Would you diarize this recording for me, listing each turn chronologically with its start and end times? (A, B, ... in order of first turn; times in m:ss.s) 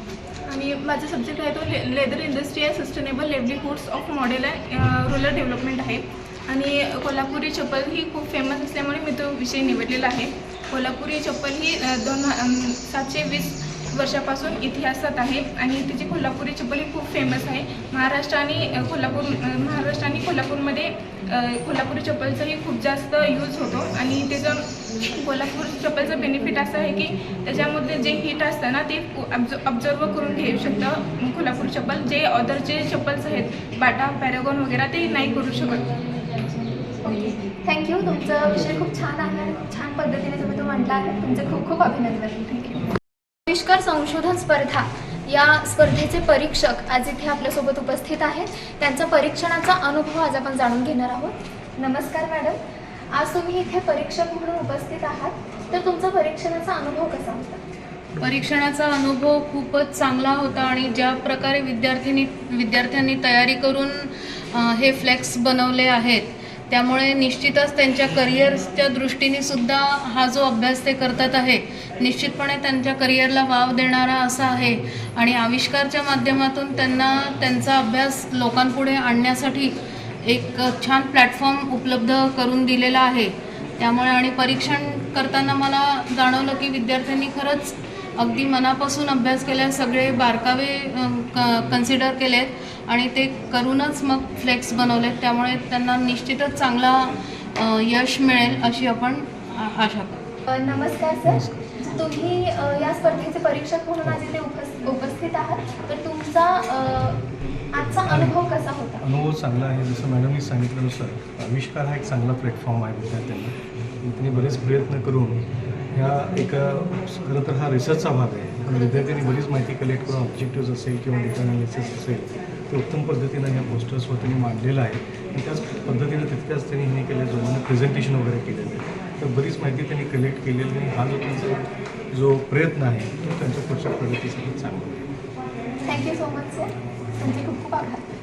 0:00.5-0:35.9 A
0:37.1-0:42.8 B
0:43.5-0:52.6 B
0:53.1-0:57.6 B
0:58.2-1:19.7 C
1:20.2-1:37.0 C
1:37.6-1:40.2 C
1:40.5-1:47.2 B
1:41.2-1:41.6 D
1:47.7-1:49.0 B
1:48.1-1:48.4 D
1:49.0-1:55.4 D
1:55.9-2:15.0 D
2:15.9-2:16.7 B
2:17.2-2:18.0 B